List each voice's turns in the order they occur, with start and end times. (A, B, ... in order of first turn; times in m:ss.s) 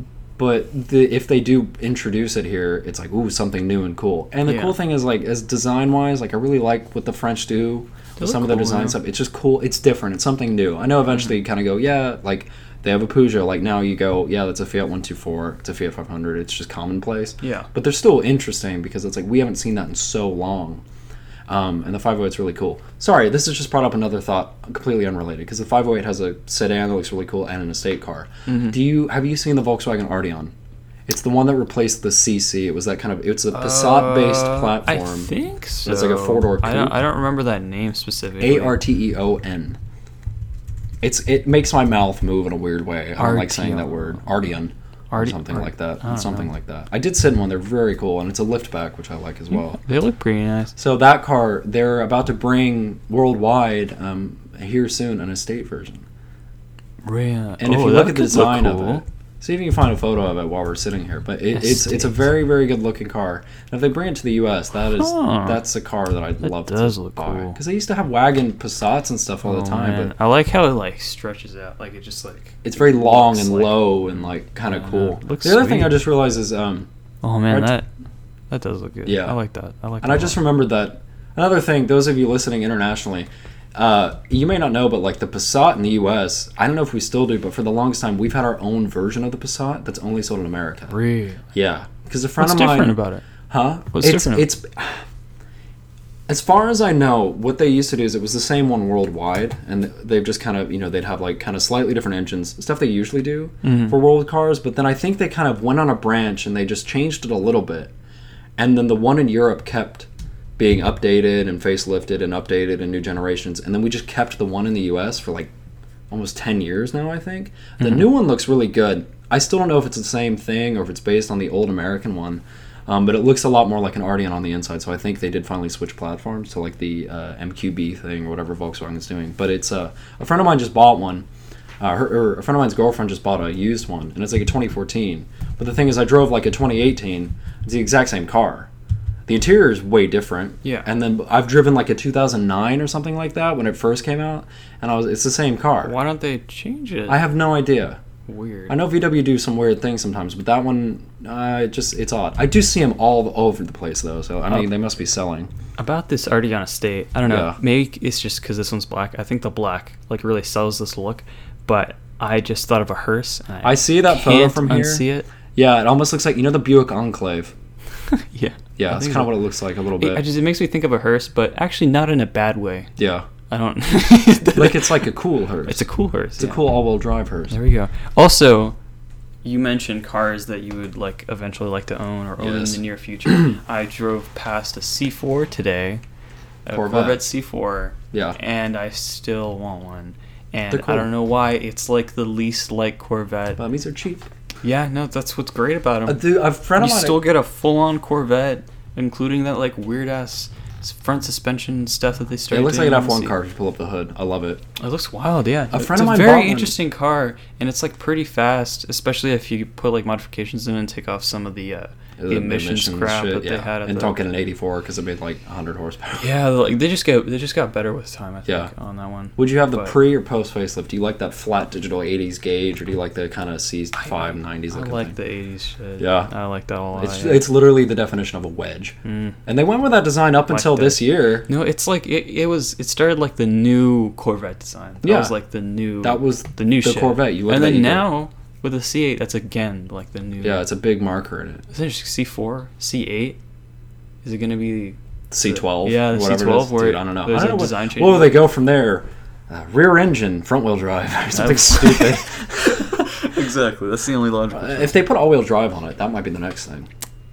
0:00.4-0:20.8 A
0:04.4-0:04.8 B
0:08.2-0:09.0 B
0:17.4-0:17.7 B
0:21.5-0:30.5 A
0:28.5-0:28.8 B
0:31.1-0:35.3 A
0:33.5-0:38.8 B
0:35.8-0:37.0 A
0:38.4-0:39.8 A
0:41.0-0:49.8 A
0:43.2-0:44.2 B
0:45.1-0:46.5 B
0:49.5-0:50.7 B
0:50.8-0:56.0 A
0:57.0-0:59.0 B
0:57.6-1:10.1 A
1:01.5-1:02.2 B
1:04.9-1:05.6 B
1:06.4-1:07.6 B
1:09.4-1:15.9 B
1:12.6-1:16.9 A
1:17.2-1:17.9 B
1:18.5-1:20.4 B
1:19.0-1:19.4 A
1:20.0-1:30.9 A
1:30.9-1:31.4 B
1:31.5-1:33.0 A
1:32.4-1:33.2 B
1:33.5-1:35.0 A
1:33.9-1:34.5 B
1:36.3-1:47.9 A
1:43.6-1:44.0 B
1:48.6-1:55.5 A
1:56.1-2:11.2 A
2:11.8-2:18.7 A
2:19.3-2:25.9 A
2:25.8-2:27.2 B
2:27.1-2:28.0 A
2:28.3-2:28.7 B
2:28.7-2:35.5 A
2:35.8-2:45.3 B
2:37.2-2:37.6 A
2:43.6-2:45.0 A
2:45.5-2:47.5 A
2:48.1-2:49.3 B
2:48.8-2:50.2 A
2:50.0-2:52.9 B
2:53.0-2:53.2 A
2:53.5-2:55.0 B
2:54.5-2:55.8 A
2:55.6-2:56.7 B
2:56.4-2:57.5 A
2:57.5-2:58.8 B
2:59.4-3:06.0 B
3:02.4-3:02.8 A
3:06.6-3:13.6 B
3:06.7-3:07.2 A
3:08.1-3:08.4 A
3:10.7-3:11.1 A
3:13.6-3:14.3 A
3:14.6-3:16.2 B
3:16.1-3:17.2 A
3:16.8-3:23.3 B
3:22.5-3:24.6 A
3:24.8-3:34.2 B
3:25.7-3:26.7 A
3:32.2-3:36.3 A
3:36.2-3:39.9 B
3:38.4-3:38.7 A
3:39.4-3:45.1 A
3:44.0-3:47.4 B
3:46.0-3:46.3 A
3:47.0-3:51.5 A
3:49.0-3:49.4 B
3:50.5-4:00.6 B
3:55.0-3:55.3 A
3:56.0-3:58.1 A
4:00.4-4:01.6 A
4:01.7-4:03.4 B
4:04.2-4:08.4 B
4:05.3-4:13.3 A
4:11.3-4:15.0 B
4:14.5-4:16.9 A